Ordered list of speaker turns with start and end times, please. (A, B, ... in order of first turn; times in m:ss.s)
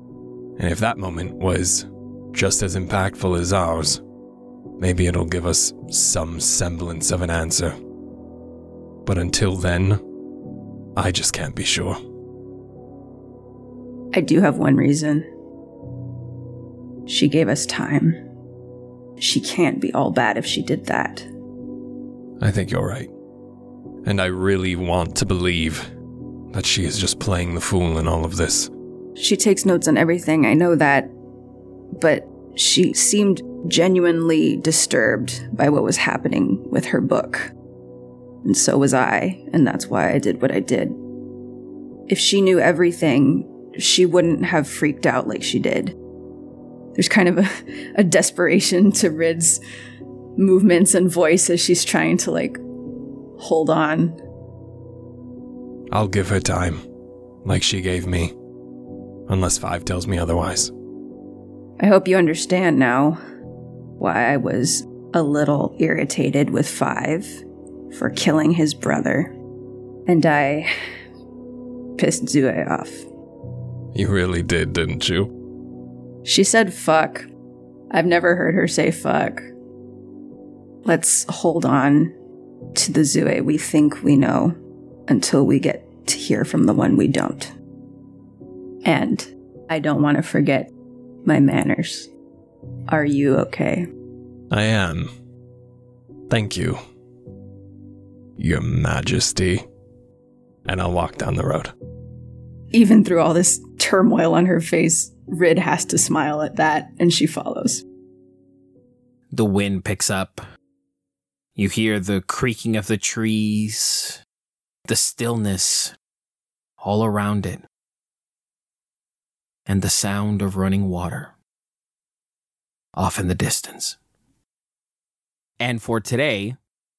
0:00.6-0:04.0 A
0:04.8-0:07.7 A
0:09.0-0:10.0 A
0:11.0-0:12.0 A
0:14.1-0:15.3 B
0:17.1-0:18.2 B
0:19.2-0:21.3 B
0:22.4-0:23.1 A
0:24.0-0:25.9 A
0:26.5-0:28.7 A
0:29.2-0:31.1 B
0:32.0-0:37.5 B
0:38.4-0:41.0 B
0:42.1-0:46.0 B
0:47.0-0:49.6 B
0:50.4-0:52.6 B
0:53.4-0:54.2 B
0:55.9-0:56.8 A
0:57.4-0:58.3 A
0:59.3-1:00.7 A
1:01.8-1:03.2 B
1:04.0-1:07.4 B
1:07.9-1:09.3 B
1:10.1-1:10.7 B
1:12.0-1:13.0 B
1:13.9-1:15.3 A
1:16.2-1:17.3 B
1:17.9-1:19.4 B
1:20.8-1:22.1 B
1:22.7-1:24.6 B
1:25.1-1:27.5 B
1:28.8-1:30.7 B
1:31.2-1:32.1 B
1:32.9-1:33.9 B
1:34.5-1:35.1 A
1:36.3-1:36.8 A
1:38.4-1:39.6 A
1:40.6-1:41.7 A
1:42.7-1:47.8 B
1:49.3-1:50.4 C
1:51.6-1:54.2 C
1:54.9-1:55.9 C
1:56.8-1:57.6 C
1:59.7-2:01.3 C
2:03.0-2:04.0 C
2:05.6-2:06.6 C